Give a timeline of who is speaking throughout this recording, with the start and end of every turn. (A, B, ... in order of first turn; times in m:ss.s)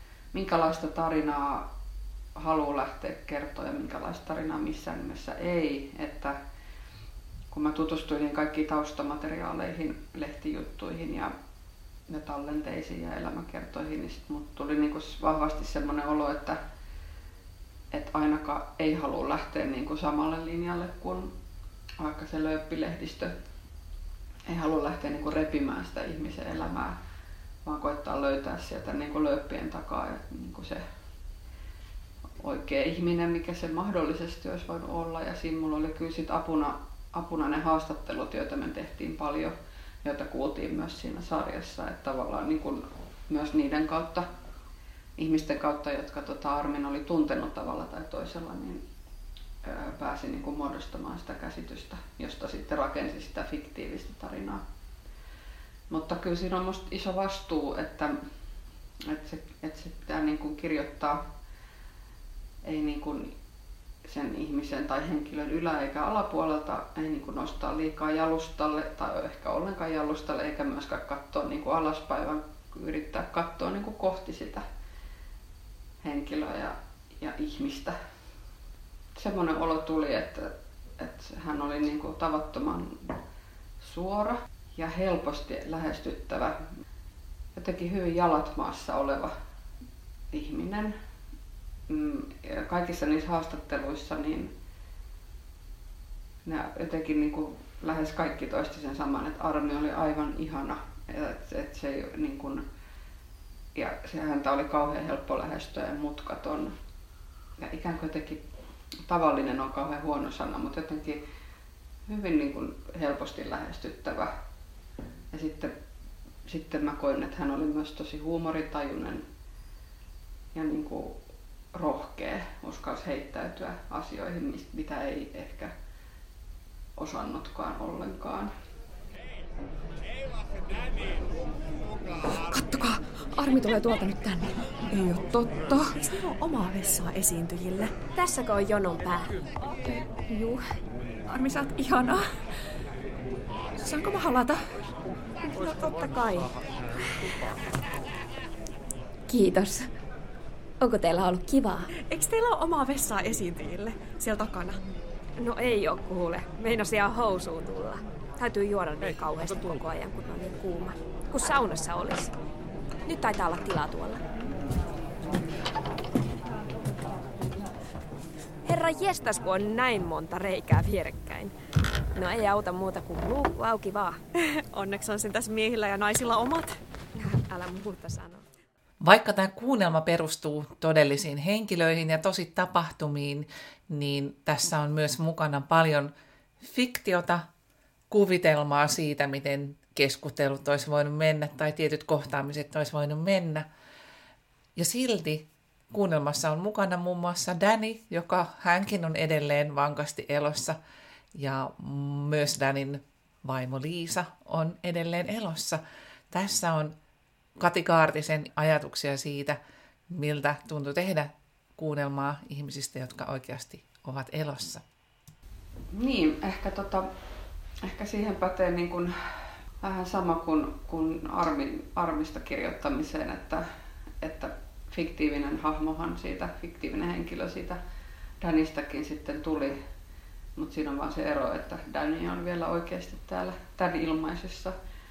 0:00.3-0:01.6 A
0:02.4-0:06.3 A
0:07.5-0:11.3 A
0:12.1-0:16.6 A
0:17.9-0:21.3 A
0:22.0-0:23.3 A
0:24.5-0:26.9 A
0:27.6-0:30.8 A
0:32.4-0:44.2 A
0:45.2-0:48.8 A
0:49.6-0:54.6 A
0:55.9-0:58.1 A
0:59.1-1:01.2 A
1:02.6-1:03.3 A
1:04.0-1:14.6 A
1:16.0-1:17.9 A
1:19.2-1:23.2 A
1:23.8-1:26.6 A
1:27.6-1:29.3 A
1:30.3-1:30.9 A
1:31.9-1:34.5 A
1:36.4-1:42.6 A
1:43.8-1:46.7 A
1:47.6-1:48.4 A
1:49.1-1:51.2 A
1:52.1-1:54.3 A
1:55.3-1:55.7 A
1:56.5-1:59.2 A
2:00.5-2:01.2 A
2:01.7-2:05.7 A
2:07.0-2:08.5 A
2:12.3-2:17.9 B
2:18.1-2:19.4 C
2:20.2-2:20.6 C
2:21.3-2:22.2 B
2:23.8-2:24.6 B
2:25.5-2:26.5 C
2:29.3-2:29.9 C
2:30.8-2:31.9 C
2:32.0-2:34.8 B
2:35.4-2:42.3 C
2:43.1-2:44.2 C
2:48.6-2:51.5 C
2:52.2-2:54.2 C
2:54.4-2:56.8 B
2:57.2-2:58.4 C
2:59.0-3:06.1 D
3:06.6-3:07.4 D
3:08.1-3:13.6 D
3:14.8-3:20.8 D
3:21.4-3:25.8 D
3:26.3-3:26.9 D
3:27.6-3:29.6 D
3:30.1-3:34.8 D
3:35.9-3:37.0 A
3:37.8-3:39.1 A
3:39.8-3:43.6 A
3:44.2-3:47.8 A
3:48.4-3:49.8 A
3:50.6-3:54.7 A